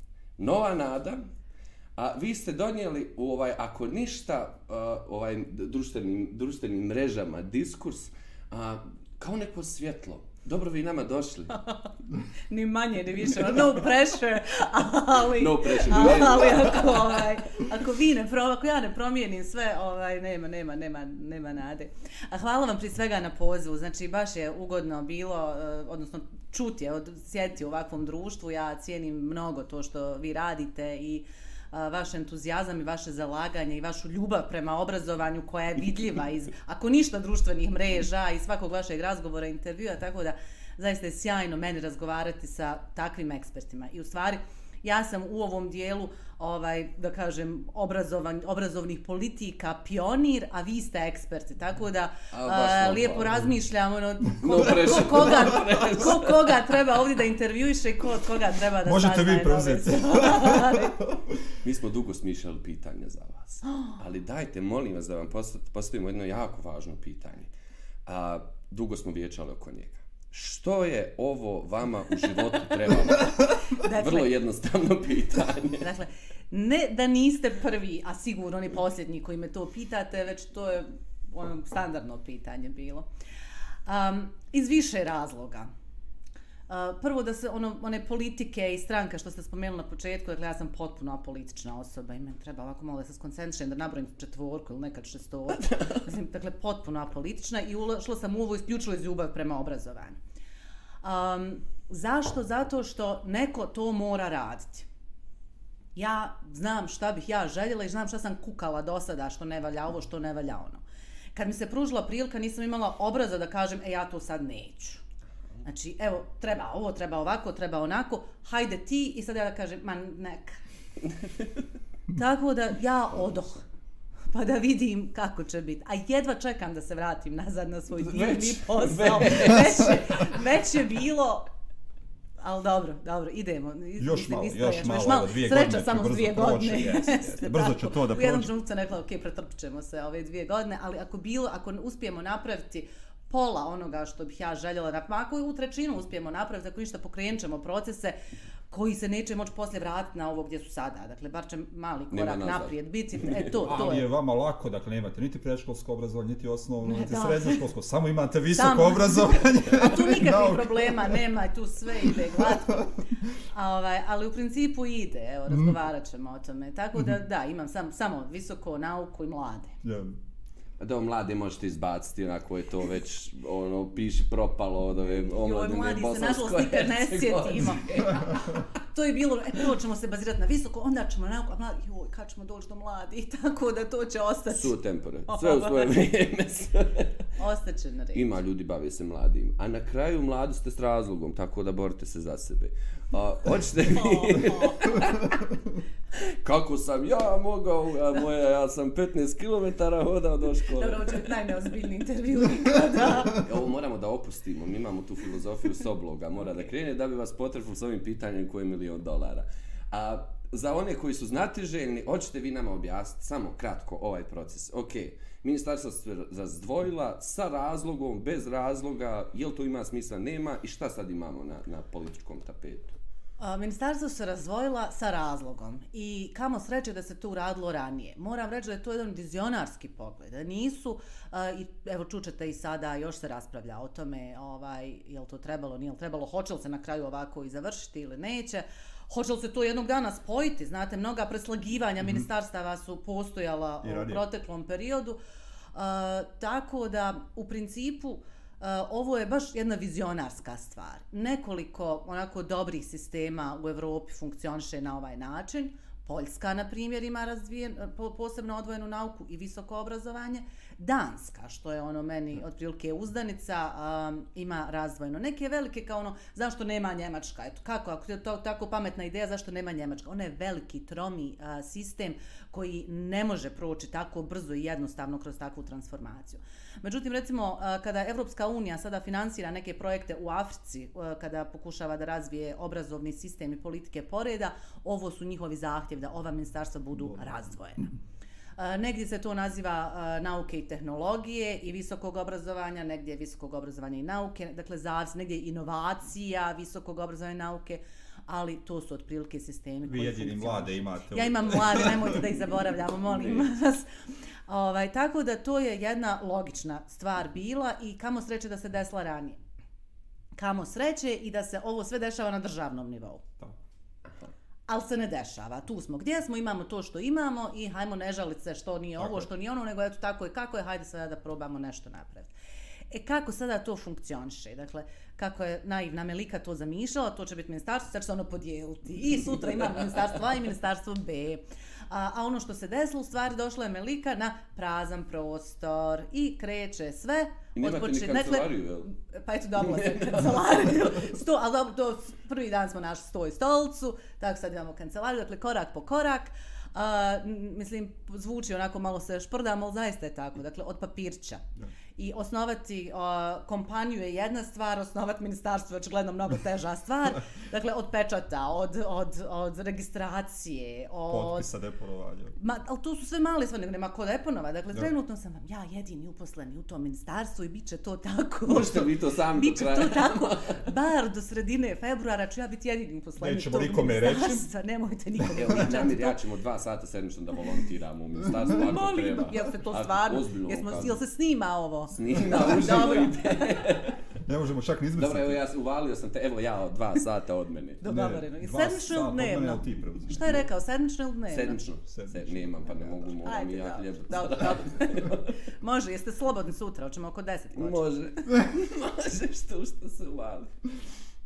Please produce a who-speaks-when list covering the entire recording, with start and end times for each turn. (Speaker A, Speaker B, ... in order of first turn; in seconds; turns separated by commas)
Speaker A: 0.4-1.2, Speaker A: 2.0-11.6, Speaker B: 12.5-61.0, Speaker A: 15.2-17.2, Speaker A: 52.3-53.5, Speaker A: 54.4-56.5, Speaker C: 58.9-61.2, Speaker A: 61.6-67.5, Speaker A: 68.1-75.9, Speaker B: 73.7-74.3, Speaker B: 75.8-83.1, Speaker B: 83.9-85.7, Speaker B: 86.7-100.2, Speaker B: 101.0-104.9, Speaker B: 106.0-110.8, Speaker B: 111.3-115.0, Speaker B: 115.6-120.6, Speaker B: 122.1-123.6, Speaker B: 124.3-131.5, Speaker A: 128.0-130.0, Speaker B: 132.4-148.2, Speaker C: 134.0-138.5, Speaker B: 148.7-154.1, Speaker A: 152.1-153.6, Speaker C: 153.7-161.2, Speaker B: 156.8-157.6, Speaker B: 158.5-162.9, Speaker B: 163.5-169.8, Speaker C: 169.8-170.2, Speaker A: 170.8-178.3, Speaker B: 175.1-184.8, Speaker A: 184.5-187.1, Speaker B: 185.3-185.9, Speaker B: 187.4-188.3, Speaker A: 188.1-195.5, Speaker B: 194.0-194.8, Speaker A: 196.2-201.2, Speaker B: 200.8-203.4, Speaker A: 203.2-222.9, Speaker B: 223.4-245.2, Speaker C: 243.8-244.2, Speaker B: 245.7-287.9, Speaker B: 288.6-303.9, Speaker C: 299.9-302.2, Speaker B: 304.5-309.4, Speaker B: 310.4-313.2, Speaker B: 314.7-322.3, Speaker C: 319.0-319.3, Speaker B: 322.9-351.4, Speaker A: 337.6-338.9, Speaker A: 339.6-340.4, Speaker B: 352.0-361.5, Speaker C: 361.1-362.4, Speaker B: 362.4-376.2, Speaker A: 368.5-370.6, Speaker C: 373.2-374.5, Speaker A: 375.4-381.0, Speaker B: 378.4-383.5, Speaker A: 381.9-384.0, Speaker C: 384.2-385.4, Speaker A: 385.0-387.8, Speaker B: 387.8-391.6, Speaker C: 387.8-390.5, Speaker A: 391.3-395.4, Speaker C: 391.9-393.2, Speaker B: 393.2-397.9, Speaker A: 397.6-400.5